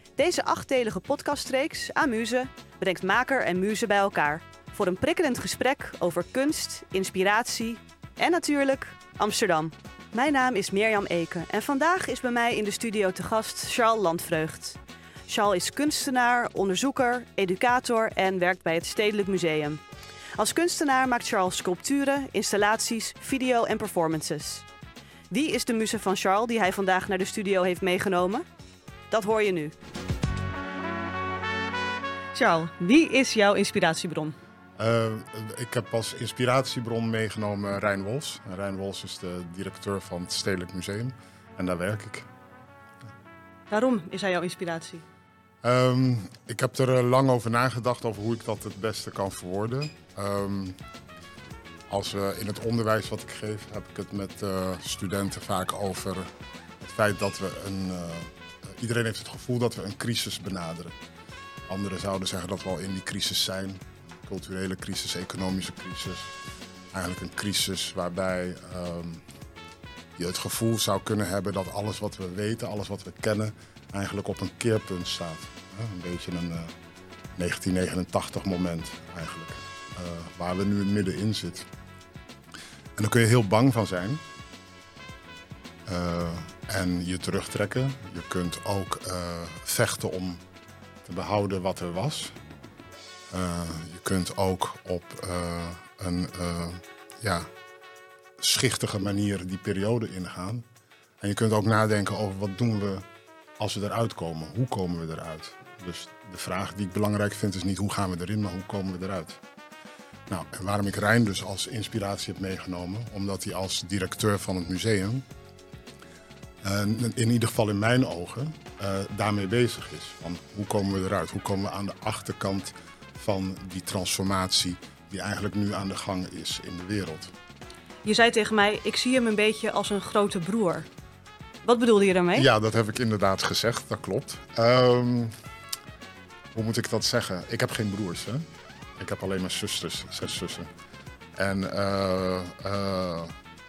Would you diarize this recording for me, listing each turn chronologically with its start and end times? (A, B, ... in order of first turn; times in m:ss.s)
0:00.2-0:19.8 A
0:20.4-0:24.7 A
0:25.3-0:28.4 A
0:29.1-0:29.8 A
0:32.3-0:34.4 A
0:34.8-0:42.3 B
0:43.7-0:45.0 A
0:45.6-0:50.8 B
0:51.9-1:01.0 B
1:01.7-1:06.3 B
1:06.9-1:09.3 B
1:10.2-1:16.8 B
1:17.4-1:21.7 B
1:23.0-1:24.2 B
1:25.9-1:30.4 B
1:31.0-1:32.4 B
1:33.3-1:37.5 B
1:38.4-1:40.6 B
1:41.2-1:43.1 B
1:43.6-1:49.4 B
1:50.3-1:55.3 B
1:56.6-2:07.3 B
2:08.0-2:10.9 A
2:11.6-2:12.5 A
2:12.4-2:15.3 B
2:16.5-2:18.5 B
2:19.0-2:20.7 B
2:21.4-2:23.3 B